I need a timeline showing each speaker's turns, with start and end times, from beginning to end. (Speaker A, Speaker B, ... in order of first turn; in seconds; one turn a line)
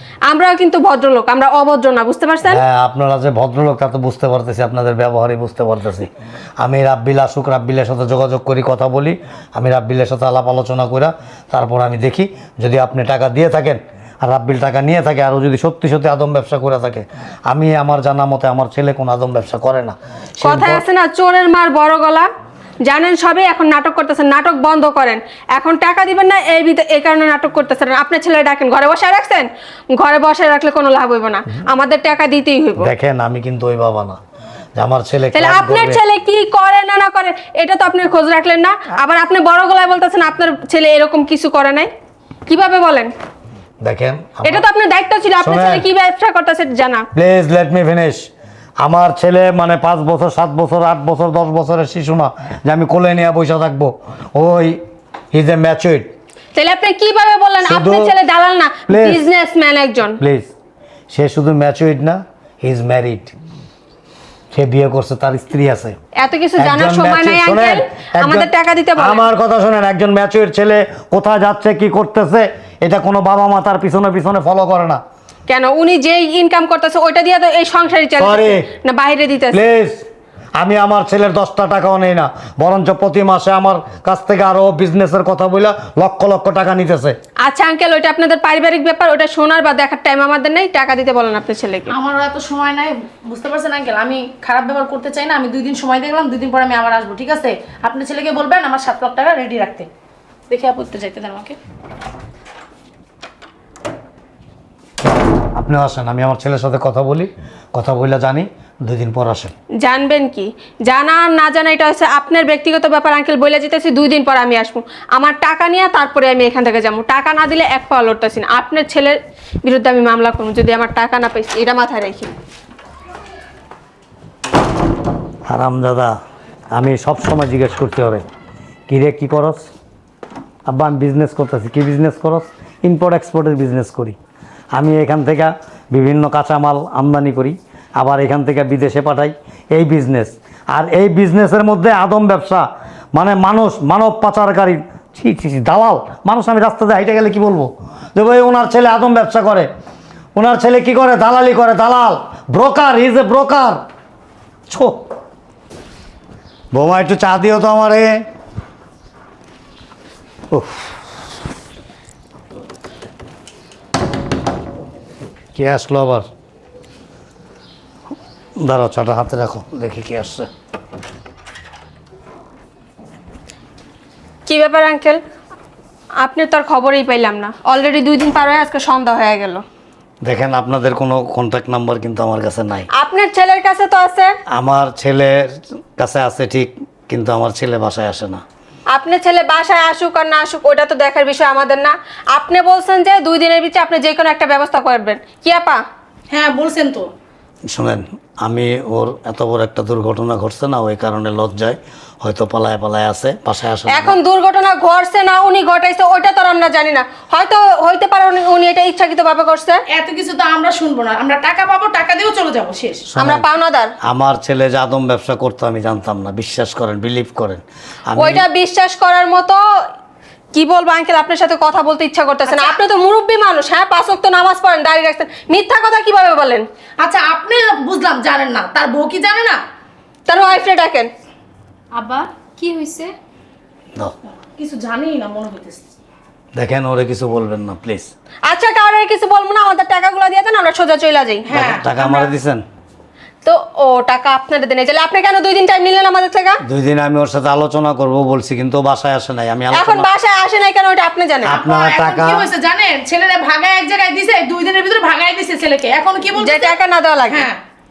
Speaker A: 0.3-2.6
Speaker B: 2.5-20.8
Speaker A: 20.4-22.3
Speaker A: 22.9-32.9
Speaker B: 32.8-34.2
Speaker B: 34.8-36.0
Speaker A: 35.3-41.9
Speaker A: 42.5-43.1
Speaker B: 43.8-44.6
Speaker A: 44.4-47.1
Speaker B: 45.4-45.9
Speaker B: 47.1-48.2
Speaker B: 48.8-54.8
Speaker B: 55.3-56.1
Speaker A: 56.5-60.2
Speaker B: 57.6-58.1
Speaker B: 58.9-59.2
Speaker B: 60.2-60.5
Speaker B: 61.1-63.3
Speaker B: 64.5-66.0
Speaker A: 66.2-69.2
Speaker B: 66.6-75.0
Speaker A: 75.5-79.6
Speaker B: 78.2-78.7
Speaker B: 79.5-80.0
Speaker B: 80.6-87.2
Speaker A: 87.4-92.0
Speaker C: 91.9-99.9
Speaker C: 100.5-101.6
Speaker B: 105.5-109.5
Speaker A: 109.8-122.3
Speaker B: 125.5-126.1
Speaker B: 126.7-128.2
Speaker B: 128.9-129.6
Speaker B: 130.7-134.2
Speaker B: 134.7-149.7
Speaker B: 150.4-153.8
Speaker B: 154.7-155.0
Speaker B: 156.7-158.1
Speaker B: 160.5-160.9
Speaker B: 165.6-166.3
Speaker B: 168.6-170.5
Speaker A: 174.5-175.2
Speaker A: 176.2-179.6
Speaker B: 180.2-182.9
Speaker A: 183.0-184.3
Speaker B: 184.5-188.4
Speaker A: 188.9-195.8
Speaker C: 196.3-197.1
Speaker B: 197.7-204.2
Speaker A: 203.9-209.8
Speaker C: 209.9-213.1
Speaker B: 213.1-213.4
Speaker A: 213.2-213.9
Speaker B: 214.0-218.4
Speaker A: 218.2-219.6
Speaker A: 220.5-226.7
Speaker C: 222.5-222.8
Speaker C: 227.0-229.6
Speaker A: 230.3-231.1
Speaker C: 231.9-232.4
Speaker A: 232.7-233.1
Speaker C: 234.6-235.9
Speaker B: 236.6-238.1
Speaker A: 238.5-241.5
Speaker C: 241.5-241.9
Speaker B: 241.5-242.6
Speaker A: 243.4-246.6
Speaker B: 246.6-250.1
Speaker A: 249.7-251.6
Speaker B: 251.4-252.5
Speaker C: 251.5-256.8
Speaker A: 256.4-257.5
Speaker C: 257.3-257.6